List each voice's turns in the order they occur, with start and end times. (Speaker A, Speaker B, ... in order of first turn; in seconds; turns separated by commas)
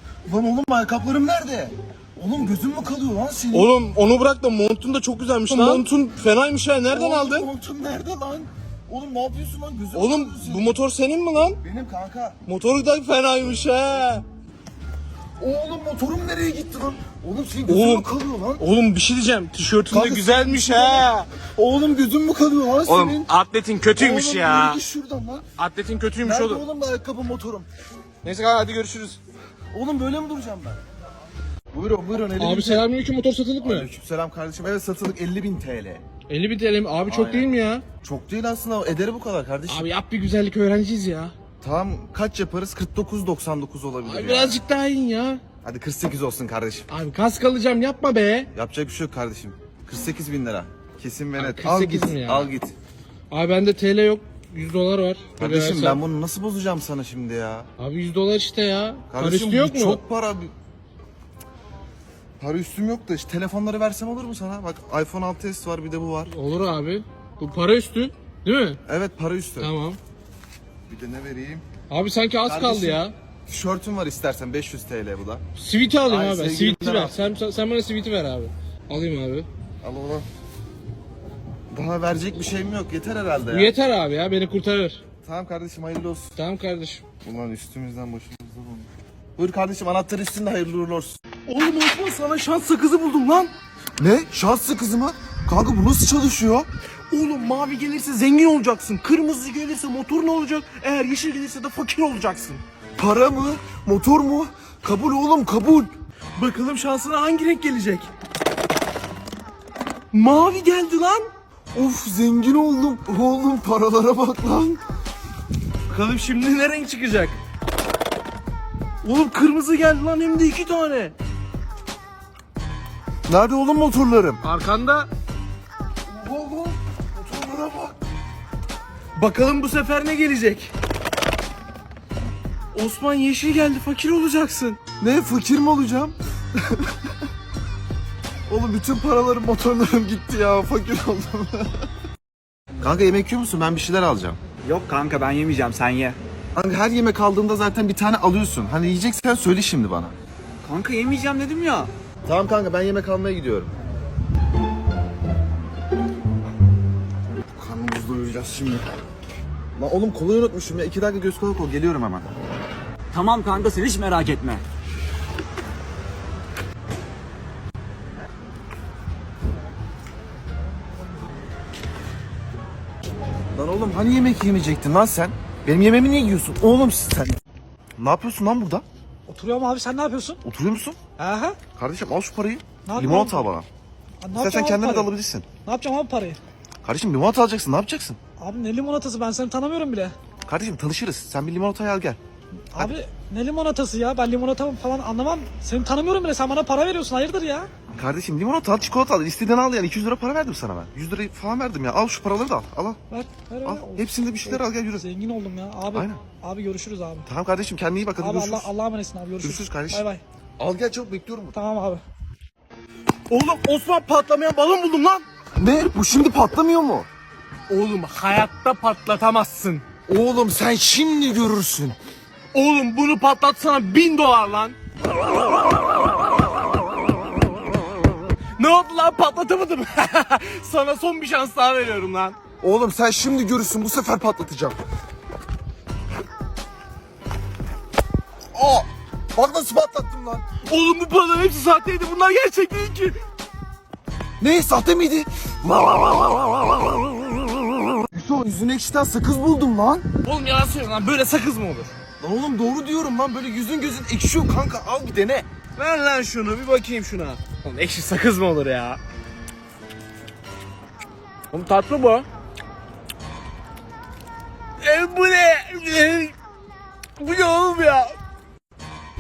Speaker A: 0.3-3.7, Speaker B: 3.5-7.5, Speaker A: 5.5-5.9, Speaker A: 6.9-10.8, Speaker B: 9.9-11.6, Speaker A: 11.6-12.4, Speaker B: 12.5-14.2, Speaker A: 15.4-18.6, Speaker B: 17.7-21.3, Speaker A: 19.9-23.3, Speaker B: 22.9-24.8, Speaker A: 24.0-25.5, Speaker B: 25.6-26.6, Speaker A: 26.2-27.7, Speaker B: 28.2-29.2, Speaker A: 29.7-30.8, Speaker A: 31.7-32.9, Speaker B: 32.4-33.9, Speaker A: 33.6-36.0, Speaker B: 36.3-37.9, Speaker A: 37.1-39.9, Speaker B: 39.7-41.3, Speaker A: 41.6-44.6, Speaker B: 44.0-45.4, Speaker A: 45.6-46.9, Speaker B: 46.9-48.5, Speaker A: 48.5-52.7, Speaker B: 51.4-52.5, Speaker B: 53.3-56.0, Speaker A: 55.4-57.7, Speaker B: 57.8-60.0, Speaker A: 59.1-60.5, Speaker A: 62.4-66.3, Speaker B: 66.3-68.8, Speaker A: 68.9-69.7, Speaker B: 69.6-70.0, Speaker A: 70.9-71.7, Speaker B: 71.9-73.1, Speaker A: 72.5-75.4, Speaker B: 75.6-79.5, Speaker A: 76.1-77.2, Speaker A: 79.8-80.3, Speaker A: 81.7-83.8, Speaker B: 83.5-85.0, Speaker A: 85.2-86.3, Speaker B: 86.4-87.0, Speaker A: 87.2-91.2, Speaker B: 91.5-93.5, Speaker A: 94.0-96.7, Speaker B: 97.1-102.6, Speaker A: 103.0-105.9, Speaker B: 106.4-108.1, Speaker B: 110.1-111.3, Speaker A: 111.7-114.8, Speaker B: 115.9-117.4, Speaker B: 119.0-121.1, Speaker A: 123.3-124.4, Speaker B: 124.4-125.1, Speaker A: 126.1-128.0, Speaker B: 129.2-130.7, Speaker B: 132.7-134.8, Speaker A: 135.0-137.0, Speaker A: 138.5-141.7, Speaker A: 142.8-144.4, Speaker C: 144.6-146.2, Speaker A: 146.6-150.2, Speaker C: 150.6-151.9, Speaker A: 152.2-153.7, Speaker A: 157.5-158.9, Speaker A: 159.8-162.2, Speaker C: 163.1-164.6, Speaker A: 173.5-177.4, Speaker A: 178.0-178.8, Speaker D: 179.3-180.4, Speaker A: 180.4-181.0, Speaker D: 181.2-181.6, Speaker A: 181.8-183.7, Speaker D: 182.8-183.5, Speaker D: 184.2-185.1, Speaker A: 184.4-185.5, Speaker D: 185.7-186.4, Speaker A: 186.8-188.2, Speaker D: 188.4-190.1, Speaker A: 190.5-192.2, Speaker D: 192.7-197.7, Speaker A: 197.9-203.0, Speaker D: 203.1-207.3, Speaker A: 203.7-205.1, Speaker A: 205.9-206.2, Speaker A: 207.3-208.7, Speaker D: 208.2-210.2, Speaker A: 209.4-210.1, Speaker A: 210.6-211.6, Speaker D: 211.5-212.0, Speaker B: 213.3-215.2, Speaker A: 215.6-217.1, Speaker B: 217.7-219.8, Speaker A: 220.1-222.0, Speaker B: 222.5-224.8, Speaker B: 228.6-232.4, Speaker A: 232.6-234.8, Speaker A: 238.5-240.5, Speaker B: 240.6-243.2, Speaker A: 244.4-246.8, Speaker A: 248.1-250.1, Speaker B: 250.2-251.9, Speaker A: 252.2-255.5, Speaker B: 255.8-259.0, Speaker B: 261.5-262.3, Speaker B: 264.8-266.3, Speaker B: 267.2-268.1